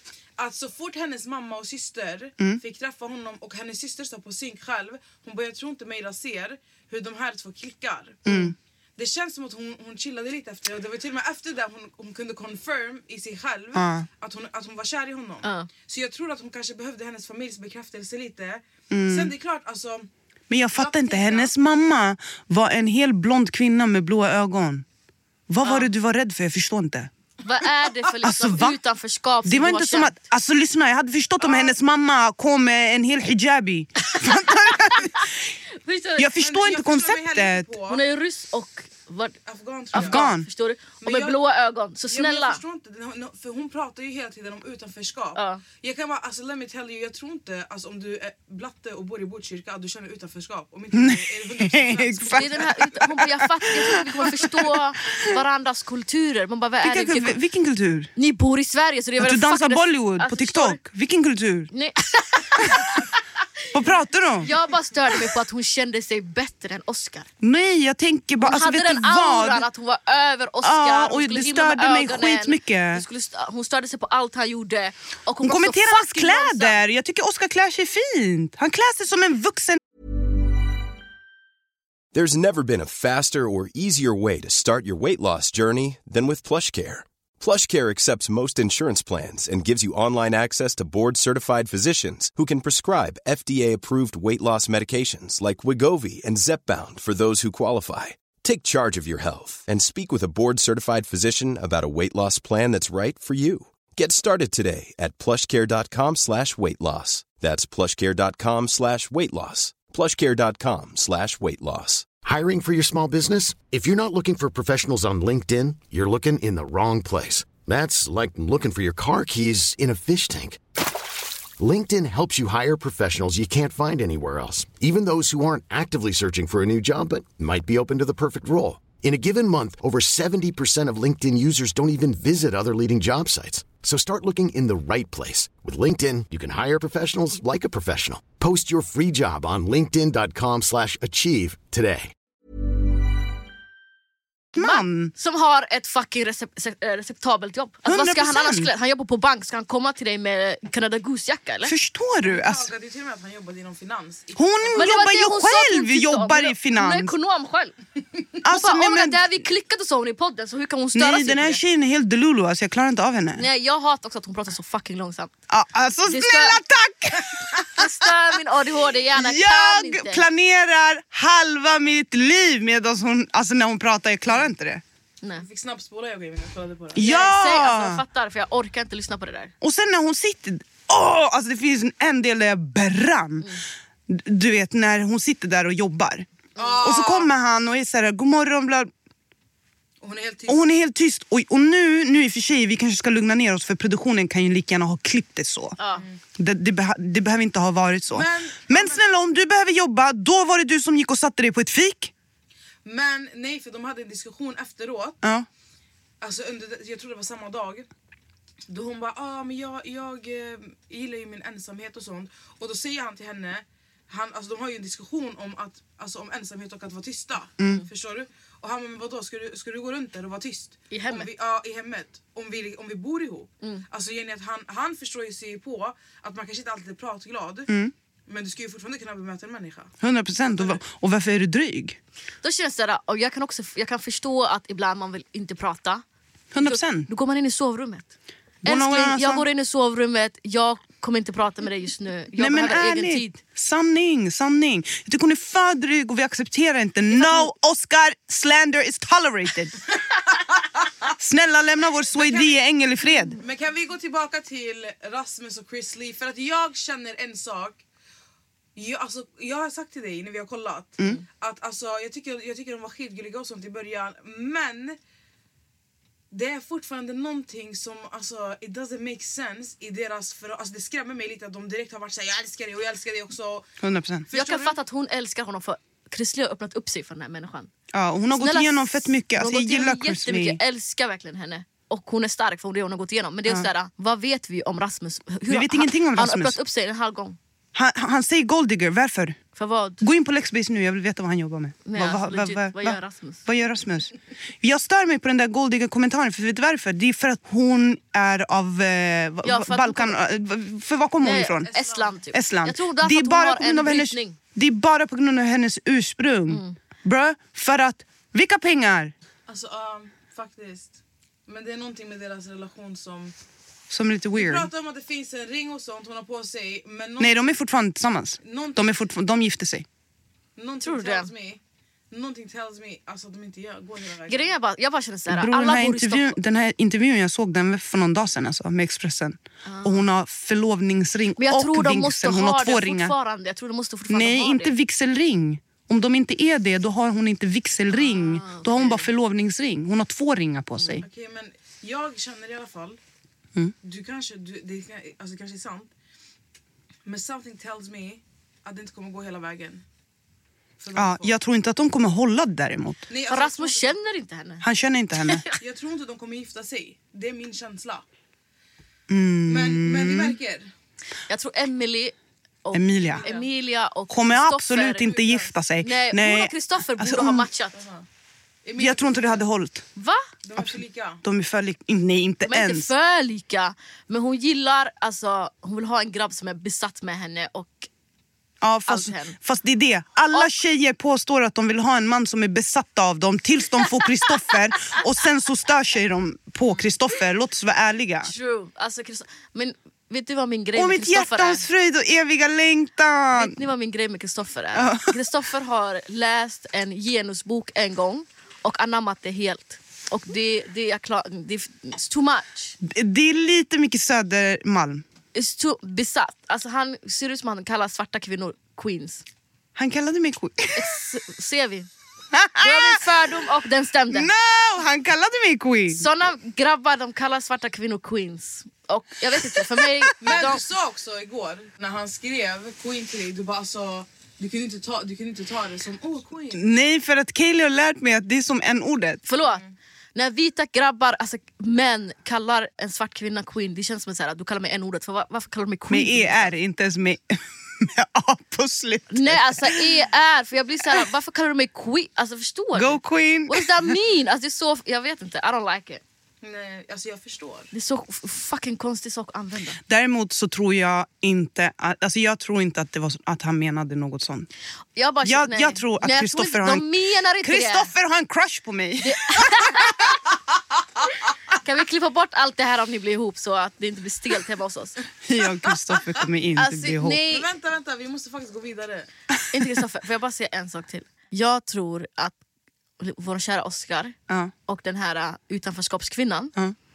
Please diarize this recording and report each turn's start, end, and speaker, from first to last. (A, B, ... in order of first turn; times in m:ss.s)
0:00.4-0:20.1 A
0:08.2-0:08.5 B
0:13.7-0:14.1 B
0:15.4-0:15.7 C
0:18.9-0:19.3 B
0:20.5-0:24.8 B
0:20.8-0:21.5 A
0:25.5-0:27.1 B
0:25.6-0:25.9 C
0:27.4-0:30.2 C
0:28.2-0:28.8 B
0:29.4-0:35.3 B
0:31.4-0:31.7 A
0:34.2-0:35.2 C
0:35.8-0:36.3 C
0:36.2-0:37.7 B
0:36.4-0:38.0 A
0:37.9-0:39.4 C
0:39.4-0:40.2 A
0:39.9-0:42.6 C
0:39.9-0:40.5 B
0:41.0-0:41.4 A
0:42.1-0:53.0 A
0:45.3-0:45.6 C
0:50.9-0:55.3 B
0:52.3-0:57.4 C
0:56.8-0:58.1 B
0:58.2-1:00.8 C
0:59.2-1:01.7 B
1:01.7-1:03.8 C
1:02.6-1:03.0 B
1:03.7-1:04.5 B
1:04.4-1:07.3 C
1:07.4-1:09.7 B
1:08.4-1:16.8 C
1:10.6-1:13.0 B
1:15.4-1:19.8 B
1:22.1-1:52.1 D
1:52.2-2:00.6 E
2:01.6-2:22.1 E
2:24.5-2:25.1 B
2:24.6-2:31.7 C
2:27.8-2:28.7 B
2:31.6-2:32.7 B
2:32.2-2:34.9 A
2:34.4-2:37.1 B
2:34.8-2:37.7 C
2:38.4-2:41.6 C
2:38.4-2:39.4 B
2:40.9-2:43.4 B
2:43.4-2:45.3 C
2:45.5-2:48.0 B
2:46.1-2:46.6 C
2:47.5-2:50.2 C
2:49.1-2:54.8 B
2:55.4-2:57.0 A
2:56.9-2:58.0 B
2:57.0-2:59.5 C
2:59.6-3:03.5 B
3:04.1-3:06.2 B
3:06.6-3:07.3 A
3:06.8-3:08.9 B
3:10.0-3:10.6 A
3:10.5-3:15.8 B
3:15.8-3:16.0 C
3:16.4-3:22.1 B
3:18.1-3:19.0 A
3:22.8-3:25.2 A
3:26.2-3:27.9 A
3:28.7-3:47.7 A
3:40.9-3:41.3 C
3:48.3-3:49.9 A
3:50.0-3:52.0 B
3:50.4-3:50.8 A
3:52.4-3:56.0 C
3:56.5-3:57.1 B
3:56.6-4:03.4 C
3:58.6-3:59.4 B
4:02.4-4:09.8 B
4:07.2-4:07.5 C
4:11.1-4:13.4 B
4:12.1-4:12.6 A
4:13.4-4:17.8 A
4:18.8-4:25.0 A
4:26.3-4:33.7 A
4:33.8-4:34.2 B
4:34.2-4:34.8 A
4:34.3-4:37.7 C
4:37.9-4:40.6 B
4:38.4-4:47.4 C
4:45.5-4:46.6 B
4:47.7-4:49.4 B
4:49.6-4:50.0 C
4:50.0-5:01.7 B
4:51.8-4:53.4 C
4:59.4-5:00.2 C
5:01.2-5:04.4 C
5:01.6-5:02.2 A
5:02.3-5:09.1 B
5:06.5-5:06.7 C
5:09.5-5:13.3 A
5:13.9-5:14.7 B
5:14.3-5:17.5 A
5:17.2-5:19.8 B
5:18.4-5:19.0 A
5:20.6-5:24.5 A
5:20.8-5:21.3 C
5:24.3-5:26.4 C
5:25.3-5:33.1 B
5:29.6-5:30.0 C
5:31.4-5:34.7 C
5:34.1-5:41.0 B
5:37.9-5:39.1 C
5:40.8-5:41.0 C
5:41.0-5:43.0 A
5:43.8-5:45.9 A
5:47.0-5:49.8 A
5:50.8-5:51.4 A
5:50.9-5:53.0 B
5:53.1-5:54.0 A
5:53.3-5:54.6 C
5:54.6-5:55.4 B
5:55.2-5:55.6 C
5:55.6-5:58.0 A
5:59.1-6:00.4 B
5:59.5-6:00.7 A
6:01.3-6:05.3 C
6:02.7-6:03.2 B
6:03.1-6:03.5 A
6:04.1-6:07.5 B
6:05.2-6:05.5 A
6:05.8-6:07.8 C
6:07.7-6:08.0 A
6:08.6-6:09.4 A
6:08.8-6:09.8 B
6:10.0-6:10.3 C
6:10.4-6:11.2 A
6:10.6-6:12.9 B
6:12.4-6:17.9 C
6:18.6-6:28.3 B
6:18.9-6:19.4 C
6:28.2-6:31.6 C
6:30.7-6:33.6 B
6:33.3-6:42.8 C
6:34.7-6:35.2 B
6:42.8-6:45.0 B
6:45.3-6:49.2 C
6:49.8-6:50.9 B
6:50.7-6:51.9 C
6:52.3-6:53.0 B
6:52.6-6:54.3 C
6:54.1-6:56.1 B
6:55.9-7:00.6 C
6:59.4-7:00.1 B
7:00.2-7:06.6 A
7:06.5-7:09.2 B
7:09.3-7:09.6 C
7:10.1-7:16.5 C
7:15.9-7:19.9 B
7:19.1-7:26.0 C
7:22.7-7:24.0 B
7:26.4-7:27.7 A
7:27.7-7:29.8 C
7:29.9-7:34.5 B
7:35.0-7:37.9 C
7:35.2-7:36.9 B
7:37.4-7:39.9 B
7:39.0-7:40.2 C
7:41.5-7:45.0 C
7:45.2-7:47.2 B
7:46.6-7:47.5 C
7:47.2-7:49.1 A
7:49.5-7:52.3 C
7:53.0-7:54.2 C
7:54.7-7:56.5 C